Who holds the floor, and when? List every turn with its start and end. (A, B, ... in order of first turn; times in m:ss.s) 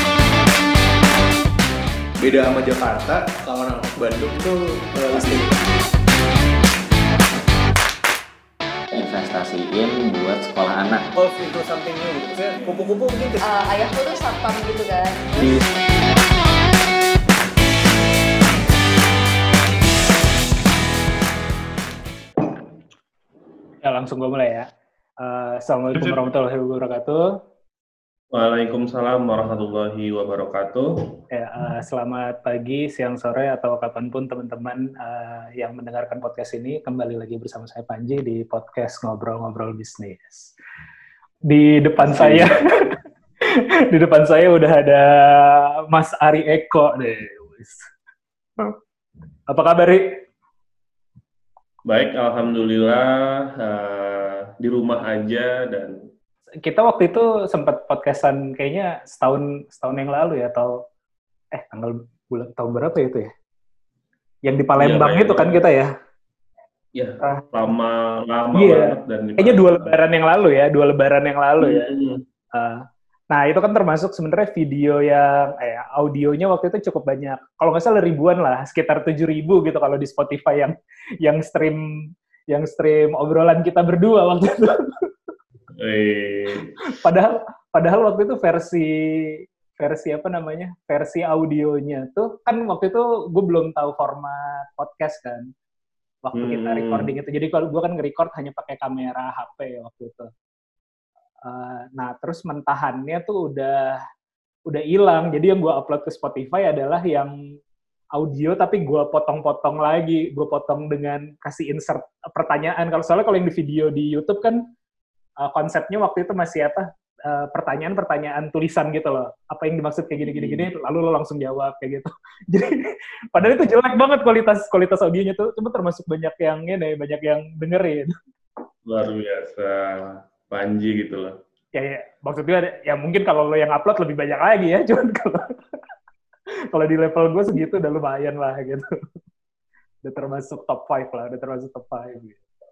0:02.2-0:05.5 A
0:08.9-0:11.1 B
0:11.2-0:13.4 A
0:13.4-0:15.6 C
0:15.4-0:15.7 B
0:23.8-0:24.7 D
0:25.2-0:27.3 D
0:28.3-0:31.2 E
0:31.3-0:40.5 D
0:41.5-0:42.6 D
0:42.0-0:42.5 E
0:43.5-0:47.9 D
0:49.5-0:50.2 D
0:51.8-0:56.0 E
0:56.6-1:00.7 D
1:01.5-1:03.3 D
1:04.4-1:05.9 D
1:04.8-1:05.6 E
1:06.9-1:10.0 E
1:08.5-1:11.9 D
1:11.6-1:12.2 E
1:12.5-1:25.1 D
1:25.7-1:26.7 E
1:26.8-1:35.5 D
1:36.2-1:40.3 D
1:36.3-1:37.1 E
1:41.4-1:44.0 D
1:44.7-1:47.3 D
1:48.2-1:54.7 D
1:55.4-2:08.1 D
2:00.2-2:00.6 E
2:08.9-2:11.4 E
2:11.8-2:15.5 D
2:16.7-2:18.8 D
2:20.0-2:22.5 D